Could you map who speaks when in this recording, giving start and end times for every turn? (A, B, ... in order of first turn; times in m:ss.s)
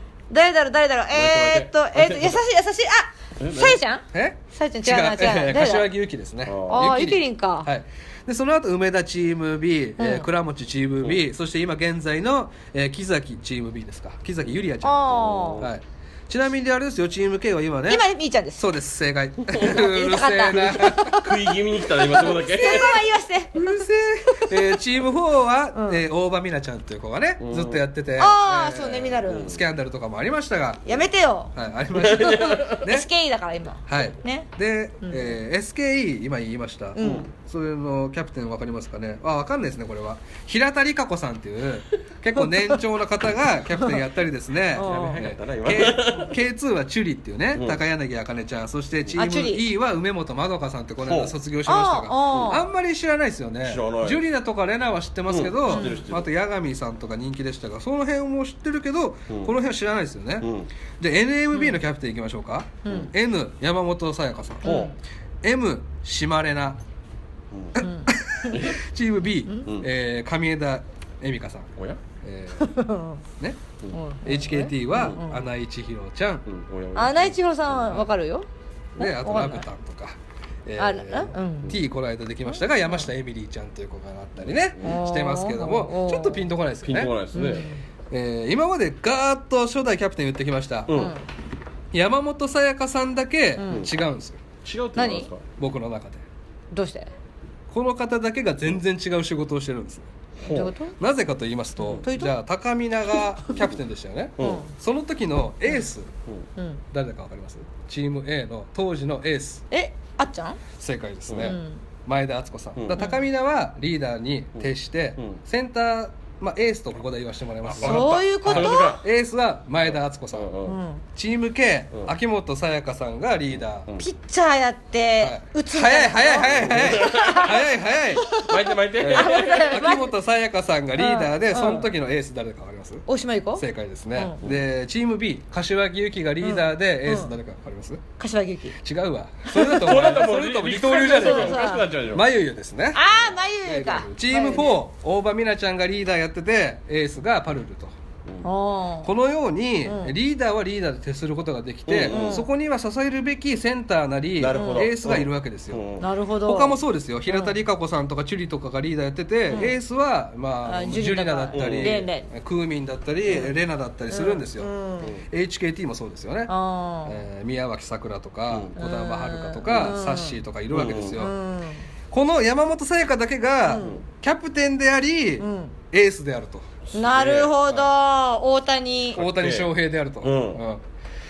0:00.3-0:05.9 A
0:01.1-0:02.4 B
0:03.4-0:03.8 B
0:04.1-0:18.0 C
0:06.4-0:06.9 B
0:06.7-0:07.7 A
0:10.0-0:10.3 A
0:14.8-0:15.7 A
0:15.0-0:15.7 B
0:17.9-0:18.6 A
0:18.6-0:21.2 C
0:19.5-0:24.7 A
0:19.5-0:19.8 B
0:20.6-0:23.0 B
0:23.5-0:31.0 C
0:25.7-0:26.0 A
0:27.4-0:27.8 B
0:28.2-0:29.6 A
0:29.2-0:29.6 B
0:30.8-0:34.5 A
0:31.5-0:33.1 C
0:32.0-0:32.8 B
0:33.9-1:04.7 C
0:35.0-0:35.3 A
0:37.0-0:37.2 A
0:37.0-0:37.3 B
0:44.7-0:45.2 A
0:44.8-0:46.4 B
0:47.5-0:47.8 B
0:49.2-0:49.6 A
0:51.0-0:51.3 B
0:51.6-0:52.7 A
0:52.3-0:52.6 B
0:53.6-0:54.2 B
0:55.3-0:56.3 B
0:55.7-0:56.0 A
0:59.3-0:59.5 B
1:00.4-1:00.7 B
1:01.5-1:01.8 A
1:02.8-1:03.1 A
1:04.6-1:04.9 B
1:04.6-1:05.0 A
1:05.4-1:06.8 C
1:07.5-1:07.8 B
1:07.8-1:08.6 A
1:07.8-1:11.7 C
1:08.5-1:08.8 B
1:12.2-1:12.8 C
1:12.6-1:13.2 A
1:13.9-1:15.4 A
1:14.2-1:16.4 C
1:14.9-1:15.2 B
1:16.4-1:18.0 B
1:16.9-1:18.5 A
1:19.0-1:27.1 C
1:19.0-1:19.6 A
1:20.8-1:21.8 A
1:22.5-1:23.0 A
1:24.4-1:25.0 B
1:24.8-1:26.5 A
1:26.8-1:27.7 B
1:27.3-1:27.8 A
1:28.1-1:31.1 C
1:30.9-1:31.1 B
1:30.9-1:31.2 A
1:31.9-1:34.4 C
1:33.6-1:33.9 A
1:34.6-1:35.4 B
1:34.9-1:35.3 A
1:35.6-1:36.2 C
1:36.7-1:37.1 A
1:37.7-1:40.1 C
1:40.4-1:40.7 B
1:40.5-1:41.0 A
1:41.0-1:46.1 C
1:41.9-1:42.3 A
1:43.1-1:43.6 A
1:44.4-1:44.6 B
1:44.4-1:44.7 A
1:46.6-1:46.8 A
1:46.9-1:49.6 C
1:49.7-1:50.6 A
1:50.8-2:00.5 C
1:51.3-1:51.6 B
1:51.4-1:51.8 A
1:52.8-1:53.0 B
1:52.9-1:53.2 A
1:54.6-1:55.4 B
1:57.6-1:59.0 B
1:57.8-1:59.0 A
2:00.3-2:00.8 B
2:00.6-2:01.0 A
2:01.1-2:03.9 C
2:04.0-2:07.5 A
2:05.2-2:08.3 C
2:06.5-2:07.6 B
2:08.2-2:10.1 A
2:08.4-2:09.8 B
2:09.0-2:13.0 C
2:11.0-2:11.9 A
2:13.1-2:14.4 A
2:13.6-2:18.0 C
2:16.4-2:17.3 A
2:18.2-2:18.8 A
2:18.8-2:27.9 C
2:19.5-2:20.2 A
2:19.6-2:22.2 B
2:20.8-2:21.9 A
2:22.9-2:24.7 A
2:28.4-2:29.1 A
2:29.0-2:35.8 C
2:29.8-2:30.1 A
2:31.9-2:32.4 B
2:32.1-2:32.5 A
2:34.4-2:36.1 B
2:34.5-2:34.9 A
2:36.0-2:36.8 A
2:36.4-2:44.7 C
2:37.3-2:37.6 A
2:39.5-2:39.8 A
2:40.6-2:42.3 A
2:41.5-2:42.0 B
2:44.1-2:45.1 A
2:45.3-2:46.5 C
2:46.5-2:47.2 A
2:47.0-2:51.3 C
2:48.5-2:48.7 B
2:48.8-2:50.4 A
2:49.7-2:50.0 B
2:50.7-2:51.2 B
2:51.1-2:51.8 A
2:52.1-2:56.7 C
2:53.6-2:54.0 A
2:55.4-2:55.8 A
2:56.9-2:57.5 B
2:56.9-2:59.2 A
2:59.1-3:00.6 B
2:59.2-3:00.8 C